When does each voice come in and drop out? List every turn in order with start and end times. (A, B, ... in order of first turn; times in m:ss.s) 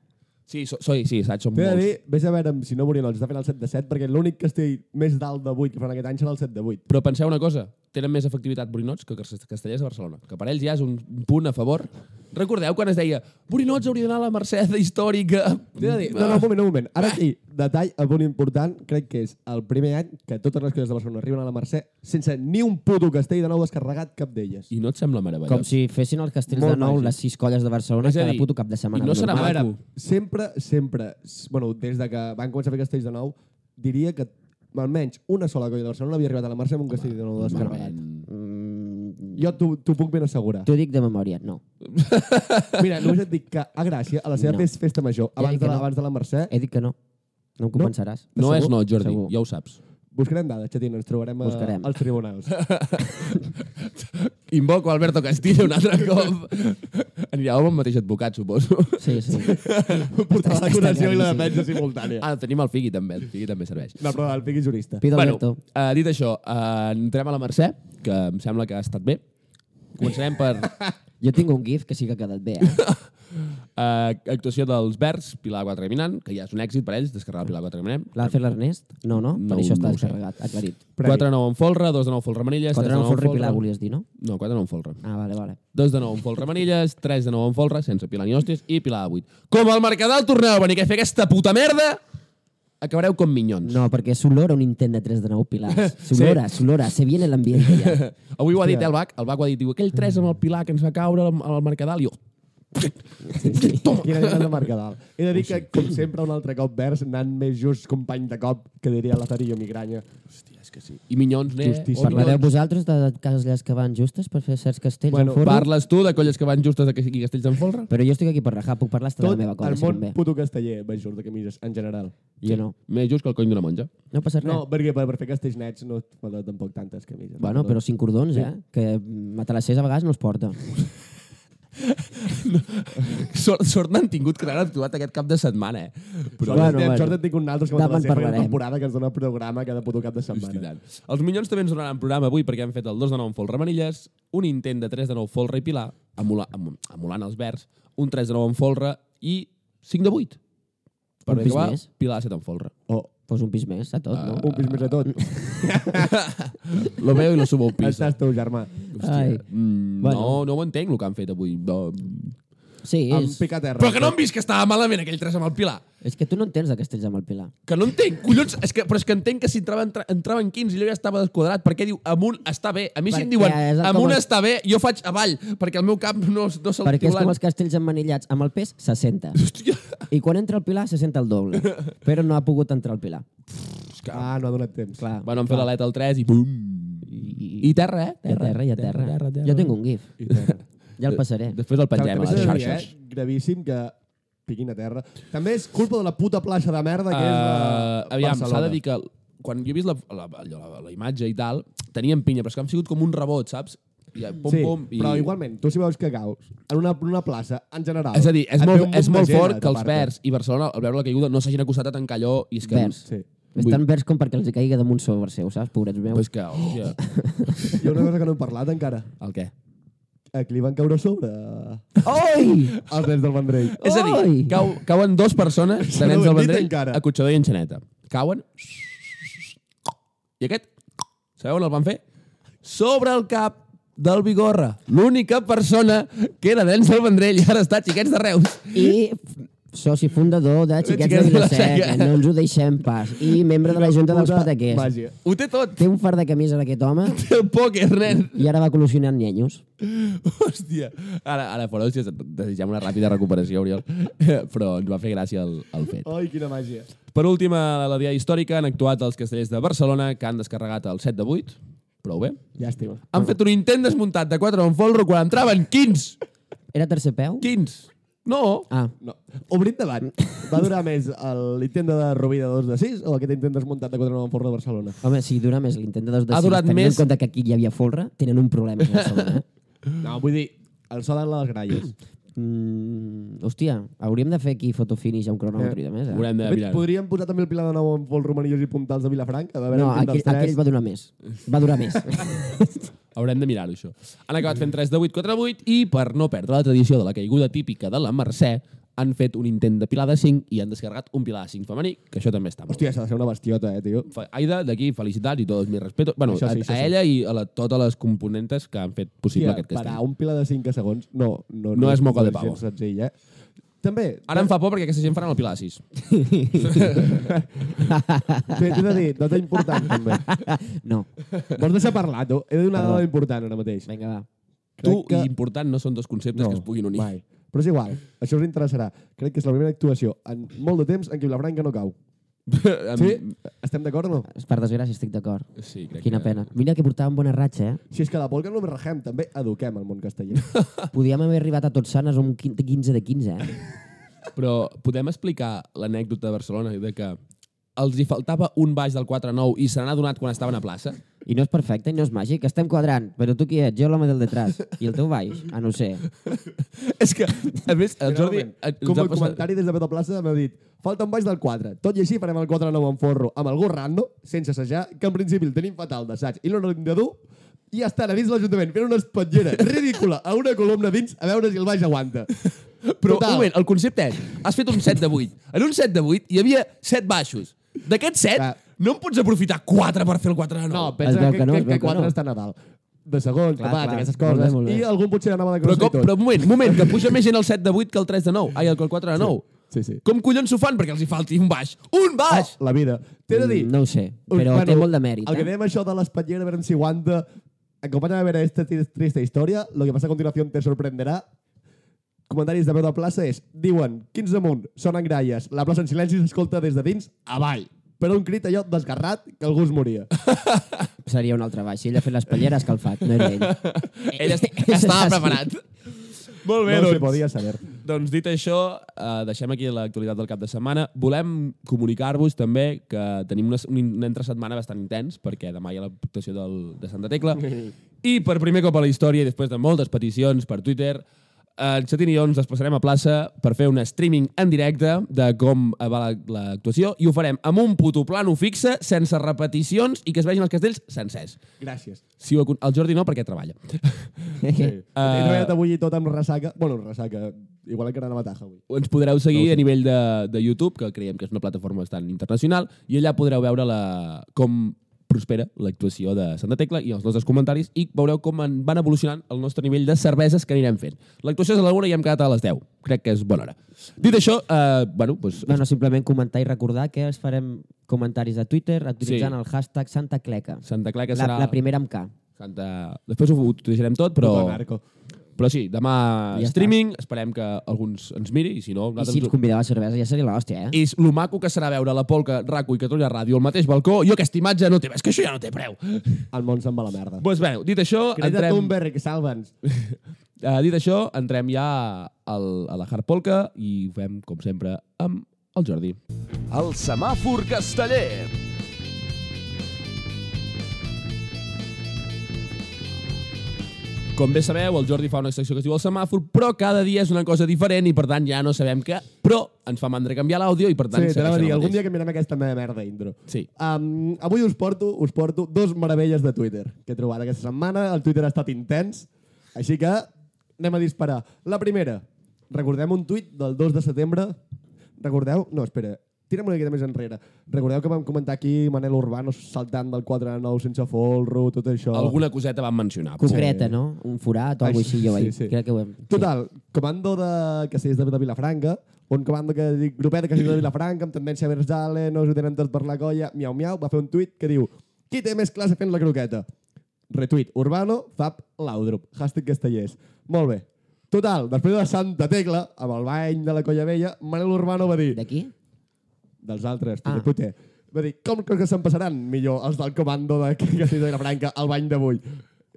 0:00.5-0:01.8 A
0:01.5-0:06.8 B
0:06.9-0:16.5 A
0:15.8-0:24.7 B
0:24.7-0:25.7 A
0:25.5-0:29.7 C
0:26.5-0:27.2 B
0:28.0-0:29.7 A
0:29.3-0:38.0 B
0:37.3-0:38.3 A
0:38.3-0:39.5 C
0:39.4-0:40.7 B
0:40.7-0:41.6 C
0:41.8-0:43.0 A
0:42.8-0:46.5 B
0:44.4-0:44.7 C
0:45.4-0:45.9 C
0:46.5-0:47.0 C
0:47.6-0:49.3 C
0:48.4-0:49.8 A
0:50.1-0:52.6 B
0:51.4-0:51.9 C
0:52.5-1:00.1 A
0:59.0-0:59.6 C
0:59.6-1:02.3 B
1:00.3-1:01.6 C
1:02.2-1:04.0 A
1:04.0-1:05.0 B
1:05.0-1:05.6 C
1:05.2-1:09.2 A
1:10.0-1:10.8 A
1:11.2-1:12.8 C
1:12.7-1:18.4 A
1:18.2-1:20.8 C
1:19.1-1:20.2 A
1:21.0-1:21.3 B
1:21.0-1:23.6 A
1:22.7-1:24.1 C
1:24.2-1:25.0 A
1:25.0-1:25.6 C
1:25.7-1:32.0 A
1:32.8-1:33.8 A
1:33.6-1:38.0 C
1:35.8-1:36.5 A
1:37.5-1:42.2 A
1:38.6-1:38.9 B
1:42.8-1:44.6 A
1:43.3-1:43.8 C
1:43.4-1:50.0 B
1:50.6-1:52.4 A
1:51.6-1:55.7 C
1:51.6-1:52.4 B
1:55.1-1:55.5 B
1:55.4-1:57.9 A
1:57.9-2:00.2 C
1:59.2-2:02.1 B
2:02.4-2:02.7 C
2:02.4-2:03.9 A
2:04.1-2:04.6 C
2:04.4-2:07.8 B
2:07.4-2:10.6 C
2:11.8-2:16.8 A
2:16.4-2:20.7 B
2:16.5-2:17.2 C
2:17.7-2:18.6 C
2:20.3-2:30.4 A
2:31.3-2:32.7 A
2:31.3-2:31.8 C
2:33.3-2:35.5 C
2:34.1-2:35.1 A
2:34.4-2:36.2 B
2:35.6-2:38.1 A
2:37.8-2:38.7 B
2:38.9-2:42.4 A
2:39.0-2:39.4 C
2:40.0-2:40.4 C
2:42.8-2:43.4 C
2:43.1-2:44.2 B
2:43.8-2:45.8 A
2:46.0-2:47.5 C
2:47.7-2:57.4 A
2:53.1-2:54.2 C
2:56.8-2:59.4 C
2:59.4-3:00.0 A
3:00.1-3:03.3 C
3:03.6-3:04.3 A
3:04.1-3:05.0 B
3:05.0-3:05.7 C
3:05.2-3:09.8 A
3:07.1-3:10.1 C
3:10.2-3:10.6 B
3:10.3-3:10.5 A
3:11.0-3:11.6 C
3:11.1-3:12.9 A
3:11.9-3:14.0 B
3:14.5-3:18.8 B
3:17.1-3:25.3 A
3:24.4-3:30.1 B
3:28.1-3:33.0 A
3:32.6-3:33.0 C
3:33.6-3:36.3 C
3:33.6-3:33.8 A
3:36.1-3:37.0 A
3:36.8-3:37.8 C
3:37.5-3:37.8 A
3:37.7-3:39.1 B
3:39.2-3:39.5 A
3:40.3-3:42.0 B
3:42.0-3:42.8 C
3:42.8-3:43.8 B
3:43.7-3:49.5 A
3:43.8-3:44.6 C
3:45.8-3:47.0 B
3:50.4-3:50.7 A
3:51.4-3:52.0 A
3:52.6-3:59.0 A
3:58.7-4:04.9 C
4:00.8-4:02.2 A
4:03.9-4:05.2 B
4:05.2-4:05.8 A
4:05.8-4:07.2 C
4:07.1-4:08.5 A
4:08.3-4:09.6 C
4:09.8-4:16.1 A
4:16.0-4:16.9 B
4:17.1-4:22.4 A
4:22.6-4:23.2 B
4:23.1-4:26.2 A
4:26.7-4:27.5 C
4:27.4-4:28.7 A
4:29.0-4:35.0 B
4:35.0-4:39.4 C
4:36.3-4:37.0 A
4:38.9-4:39.4 A
4:40.0-4:41.9 B
4:42.4-4:46.3 C
4:46.1-4:46.8 A
4:46.4-4:50.6 B
4:49.7-4:52.9 C
4:53.2-5:02.9 A
5:02.7-5:04.1 B
5:04.1-5:10.0 A
5:06.3-5:06.9 B
5:09.3-5:13.1 B
5:11.7-5:12.6 A
5:13.8-5:14.5 B
5:14.3-5:15.8 A
5:16.1-5:17.1 C
5:16.6-5:17.2 A
5:17.0-5:17.8 B
5:17.8-5:21.1 C
5:18.5-5:20.3 B
5:21.5-5:23.9 B
5:22.7-5:23.0 C
5:23.9-5:24.3 C
5:24.8-5:25.3 B
5:24.8-5:27.1 A
5:26.4-5:32.0 B
5:32.5-5:33.3 A
5:33.0-5:34.3 B
5:34.3-5:35.5 C
5:35.6-5:36.5 A
5:36.0-5:37.8 C
5:37.9-5:40.5 B
5:40.5-5:40.9 A
5:40.9-5:43.6 C
5:44.4-5:47.2 A
5:47.8-5:51.0 A
5:51.2-5:56.0 C
5:56.3-5:59.4 A
5:58.0-6:12.3 B
6:12.5-6:21.0 A
6:13.0-6:13.5 B
6:20.7-6:27.2 B
6:21.0-6:22.1 C
6:23.6-6:24.8 C
6:25.6-6:29.5 A
6:29.2-6:30.0 B
6:30.0-6:32.5 A
6:32.3-6:33.7 B
6:33.3-6:35.5 C
6:34.3-6:37.2 B
6:37.8-6:41.3 B
6:42.3-6:50.1 B
6:50.2-6:50.9 A
6:51.0-6:55.4 C
6:53.1-7:11.0 A
6:56.7-6:57.7 B
7:11.6-7:21.4 A
7:21.6-7:22.0 B
7:22.2-7:24.4 A
7:24.4-7:24.7 C
7:24.5-7:28.6 B
7:25.0-7:25.6 A
7:28.7-7:45.6 A
7:29.3-7:29.6 B
7:45.4-7:52.1 C
7:49.0-7:49.4 A
7:50.6-7:51.6 A
7:52.4-7:54.6 A
7:54.2-7:54.8 B
7:55.4-7:59.4 A
7:56.3-7:56.7 C
7:59.0-8:00.8 C
8:00.7-8:06.3 A
8:06.3-8:07.2 B
8:07.2-8:08.8 A
8:08.2-8:09.5 B
8:09.7-8:16.0 A
8:16.5-8:18.3 A
8:24.2-8:31.8 A
8:30.9-8:44.4 B
8:45.0-8:52.2 B
8:51.9-8:53.4 A
8:53.2-8:53.8 B
8:53.2-8:56.3 C
8:54.6-8:55.5 B
8:56.1-9:06.5 B
9:07.1-9:15.2 B
9:15.1-9:15.5 C
9:16.4-9:22.4 B